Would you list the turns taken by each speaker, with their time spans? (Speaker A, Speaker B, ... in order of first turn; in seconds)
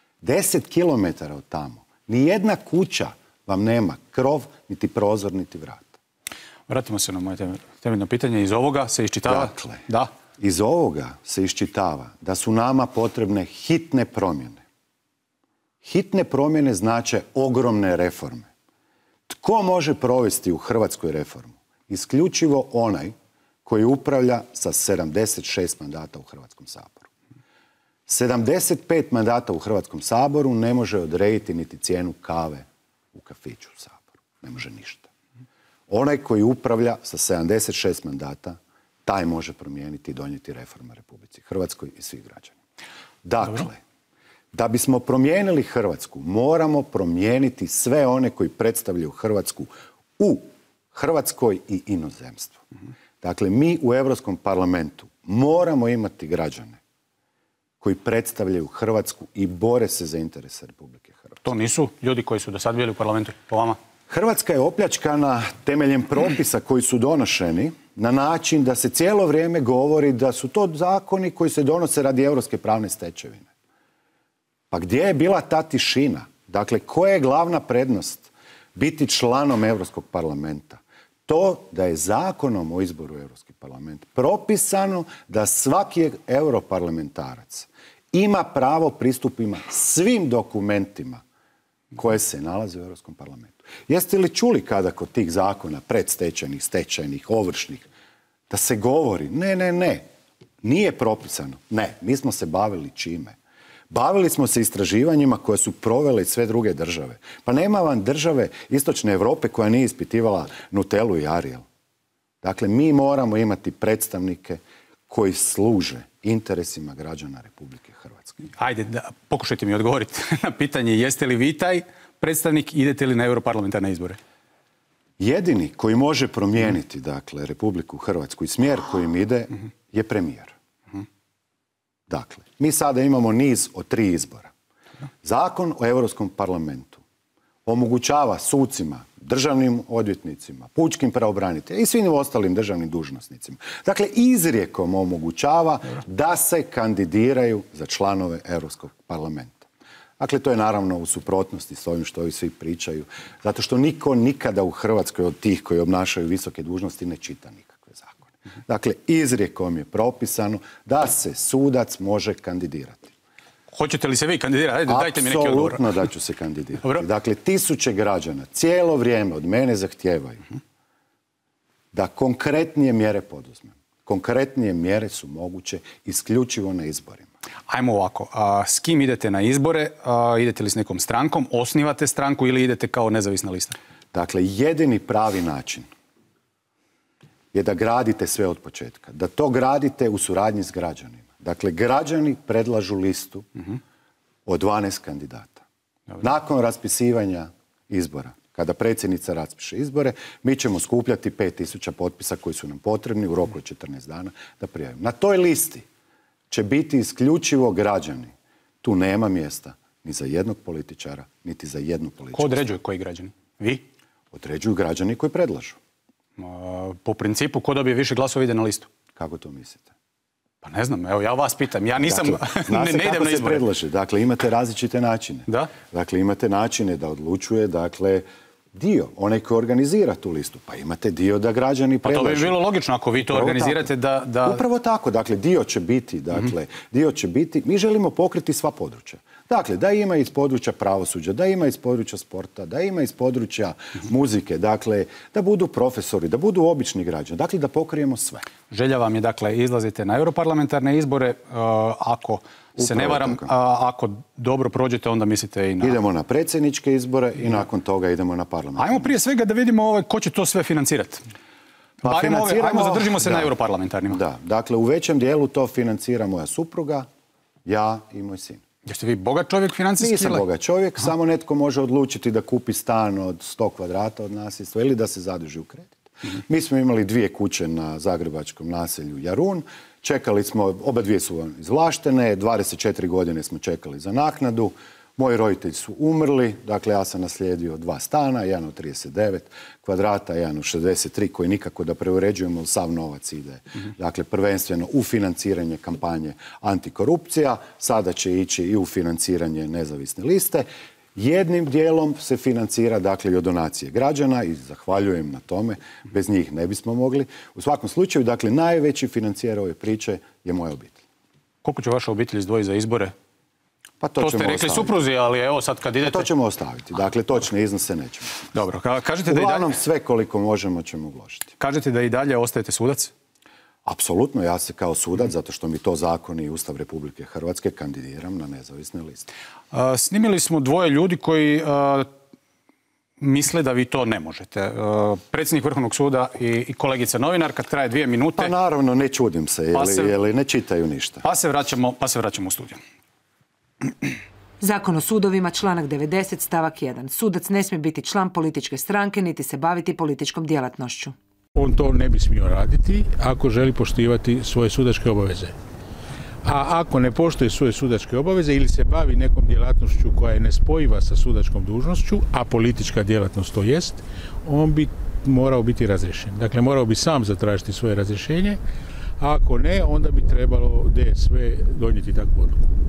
Speaker A: 0.2-6.0, 9.3-9.8, 10.4-14.6, 15.8-18.5, 19.3-27.1, 28.1-35.1, 35.9-42.6, 43.2-43.8, 44.5-52.6, 53.2-56.8, 57.8-61.5, 64.1-73.5, 74.7-91.2, 92.0-97.9, 98.5-100.1, 100.6-103.4, 103.9-111.7, 112.4-118.4, 125.2-130.5, 132.1-134.5, 135.2-137.0, 137.7-149.7, 150.2-163.1, 164.9-170.4, 171.9-177.3, 184.1-185.9, 187.5-193.5, 194.5-195.6, 196.2-205.9, 206.5-212.7, 214.3-215.8, 219.2-219.9, 222.0-232.6, 233.2-233.9, 234.4-248.5, 252.8-253.5, 255.8-259.1, 262.0-263.5, 264.1-267.1, 267.6-268.6, 270.0-311.0, 314.0-314.9, 316.0-318.5, 319.3-321.5, 323.9-329.3, 338.4-341.2
Speaker B: 6.7-10.1, 61.4-63.8, 118.6-124.2, 163.7-166.0, 177.7-183.8, 212.3-213.9, 216.4-218.9, 220.6-223.6, 225.5-225.7, 232.0-234.6, 248.7-256.0, 258.8-261.2, 262.0-264.2, 268.9-270.4, 311.6-313.1, 314.2-316.3, 318.5-319.7, 321.6-323.1, 329.7-332.1, 333.2-338.5, 339.7-340.1, 341.2-342.8
Speaker C: 344.6-351.2
Speaker D: 351.6-355.5, 356.4-368.6, 369.2-372.6